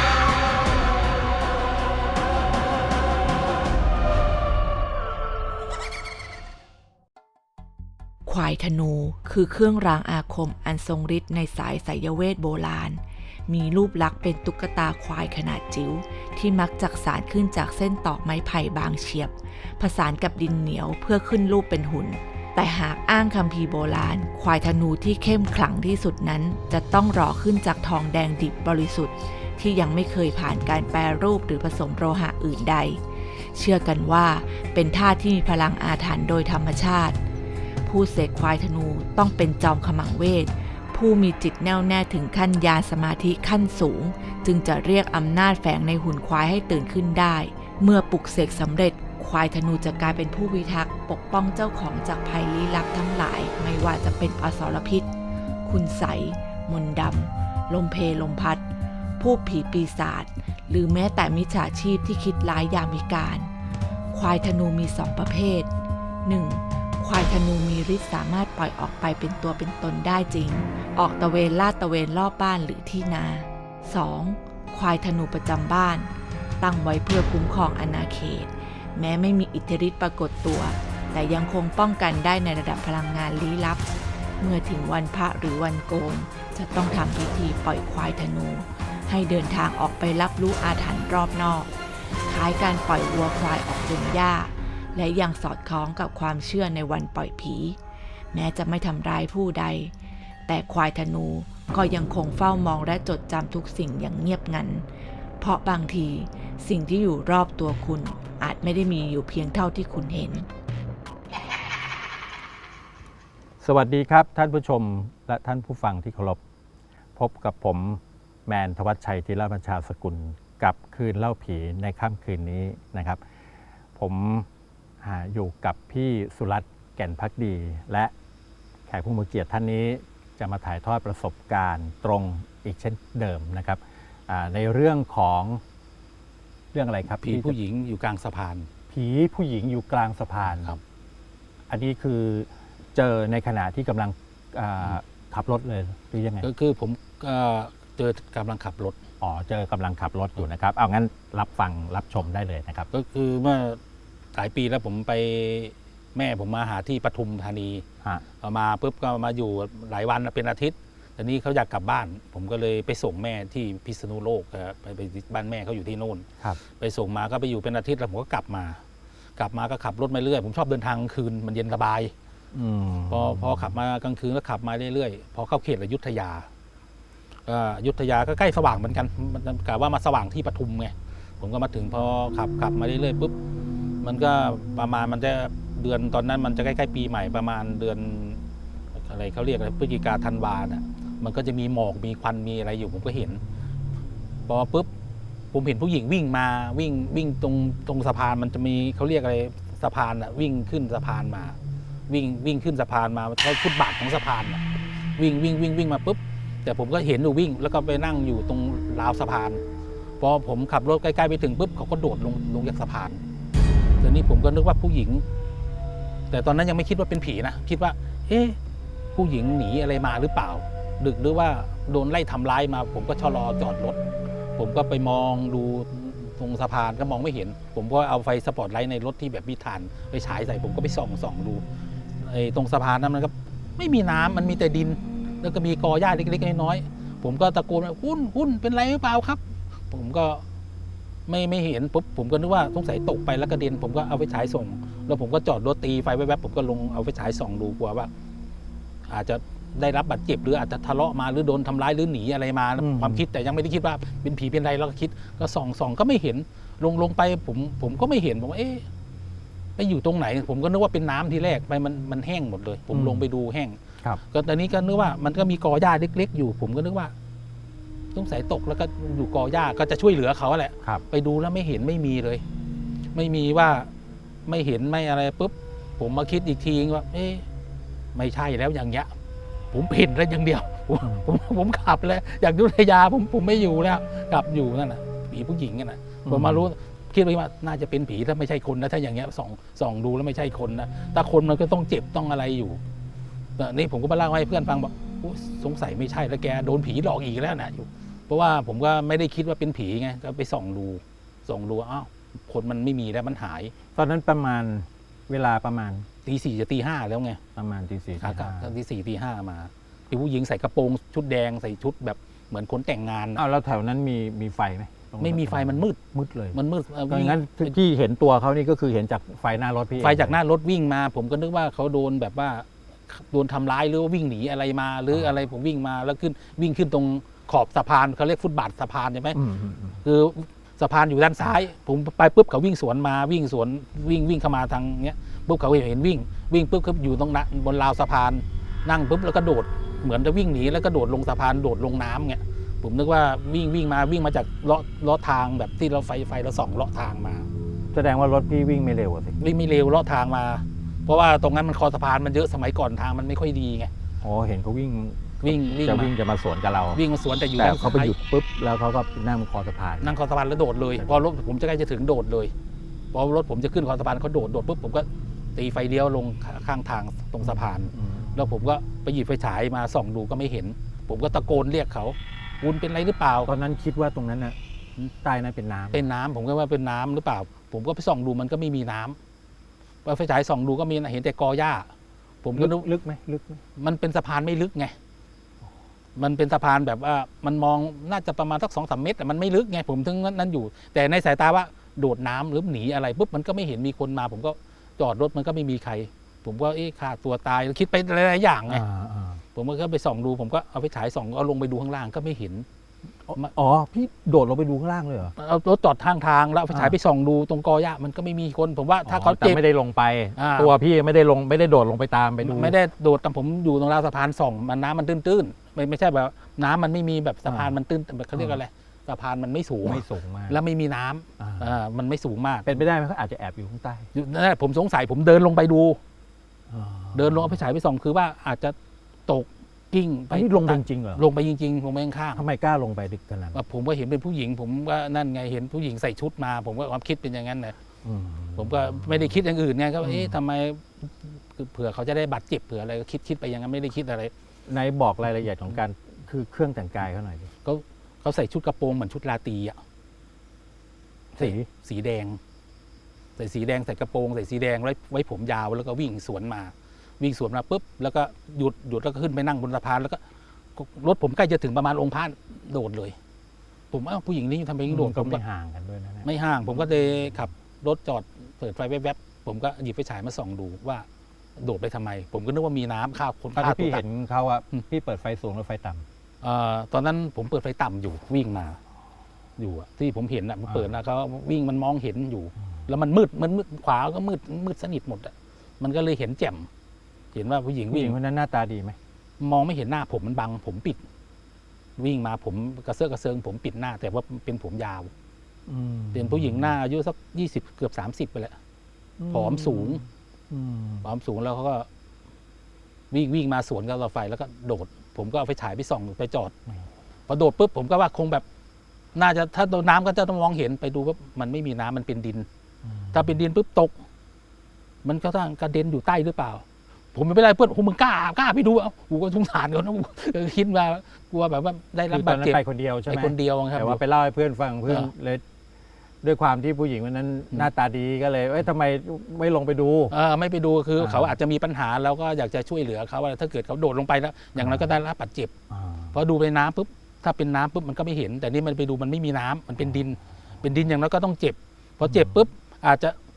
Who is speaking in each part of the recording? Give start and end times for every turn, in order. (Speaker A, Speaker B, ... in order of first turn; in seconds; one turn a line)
Speaker A: 8.2-33.0
Speaker A: 33.5-37.2
Speaker A: 37.8-55.1
Speaker A: 55.6-58.6
Speaker A: 59.2-63.5
Speaker A: 64.1-65.7
Speaker A: 66.2-76.1
Speaker A: 76.6-83.8
Speaker A: 84.4-91.7
Speaker A: 92.2-97.8
Speaker A: 98.3-99.9
Speaker A: 100.5-104.8
Speaker A: 105.4-110.5
Speaker B: 113.6-116.4
Speaker B: 117.2-123.2
Speaker B: 123.9-124.5
Speaker B: 125.0-128.1
Speaker B: 128.9-135.6
Speaker B: 136.7-137.6
Speaker C: 137.2-138.7
Speaker B: 138.9-140.8
Speaker C: 140.5-140.8
Speaker B: 141.7-146.5
Speaker C: 146.4-149.0
Speaker B: 149.2-152.9
Speaker C: 152.9-153.8
Speaker C: 154.3-157.8
Speaker C: 158.4-168.8
Speaker C: 169.4-172.1
Speaker B: 172.5-173.7
Speaker C: 173.1-176.5
Speaker C: 177.5-183.3
Speaker C: 184.0-188.4
Speaker C: 188.9-193.4
Speaker C: 194.5-194.9
Speaker C: 195.5-201.6
Speaker C: 202.1-209.6
Speaker C: 210.2-213.2
Speaker C: 214.0-215.2
Speaker C: 216.3-218.6
Speaker C: 219.1-224.0
Speaker C: 224.6-231.6
Speaker C: 232.2-240.4
Speaker C: 241.3-248.1
Speaker C: 249.1-258.8
Speaker B: 252.8-253.2
Speaker C: 259.8-263.8
Speaker B: 262.9-263.3
Speaker C: 264.3-267.1
Speaker C: 268.1-272.4
Speaker C: 273.1-273.9
Speaker C: 274.4-277.4
Speaker C: 278.1-279.1
Speaker C: 279.7-292.8
Speaker B: 286.2-286.7
Speaker C: 293.6-303.7
Speaker B: 303.9-306.1
Speaker C: 306.2-307.4
Speaker B: 307.5-308.7
Speaker C: 308.2-313.4
Speaker B: 313.4-320.4
Speaker C: 315.2-316.0
Speaker C: 316.5-317.8
Speaker C: 320.0-329.4
Speaker B: 329.3-330.0
Speaker C: 330.0-347.5
Speaker B: 347.9-349.4
Speaker C: 349.4-353.9
Speaker B: 354.2-357.0
Speaker C: 355.4-356.1
Speaker C: 356.9-358.1
Speaker B: 357.6-360.1
Speaker C: 360.0-362.5
Speaker C: 363.1-373.5
Speaker B: 367.4-368.3
Speaker B: 373.4-376.1
Speaker C: 375.9-379.2
Speaker C: 380.0-381.9
Speaker C: 382.4-382.9
Speaker B: 382.5-383.6
Speaker C: 383.8-384.9
Speaker C: 386.1-398.8
Speaker B: 398.7-399.4
Speaker C: 399.5-402.6
Speaker B: 403.3-405.3
Speaker C: 405.4-409.6
Speaker B: 406.7-407.0
Speaker B: 409.1-412.7
Speaker C: 410.4-410.7
Speaker C: 412.4-422.7
Speaker B: 417.4-417.7
Speaker B: 418.3-418.6
Speaker B: 419.8-420.6
Speaker B: 421.4-421.7
Speaker B: 422.6-424.1
Speaker C: 424.1-426.0
Speaker B: 426.7-427.6
Speaker C: 427.1-428.7
Speaker C: 429.3-432.4
Speaker B: 430.3-431.2
Speaker B: 432.3-433.6
Speaker C: 433.5-437.7
Speaker B: 438.0-439.4
Speaker C: 438.6-444.3
Speaker B: 440.0-440.4
Speaker B: 444.7-447.5
Speaker C: 447.6-449.8
Speaker B: 451.3-451.7
Speaker C: 451.4-452.4
Speaker C: 453.4-460.2
Speaker C: 460.8-463.1
Speaker C: 463.9-465.4
Speaker B: 464.9-466.3
Speaker C: 466.2-471.1
Speaker C: 471.6-474.0
Speaker B: 473.5-476.0
Speaker C: 476.4-478.8
Speaker C: 479.6-486.7
Speaker C: 487.3-488.2
Speaker B: 487.9-489.0
Speaker C: 489.4-491.0
Speaker C: 492.0-495.1
Speaker B: 495.7-496.8
Speaker C: 496.1-498.6
Speaker B: 499.2-501.1
Speaker C: 499.3-500.0
Speaker C: 501.0-501.9
Speaker C: 503.1-506.5
Speaker C: 507.3-508.4
Speaker C: 509.1-512.5
Speaker B: 512.9-513.4
Speaker C: 513.1-513.9
Speaker C: 515.0-516.6
Speaker C: 517.1-524.0
Speaker B: 522.1-525.4
Speaker C: 524.9-525.1
Speaker B: 526.2-530.1
Speaker C: 530.1-535.5
Speaker B: 531.0-531.4
Speaker B: 534.6-534.9
Speaker B: 535.7-536.2
Speaker C: 536.1-543.1
Speaker B: 542.0-542.3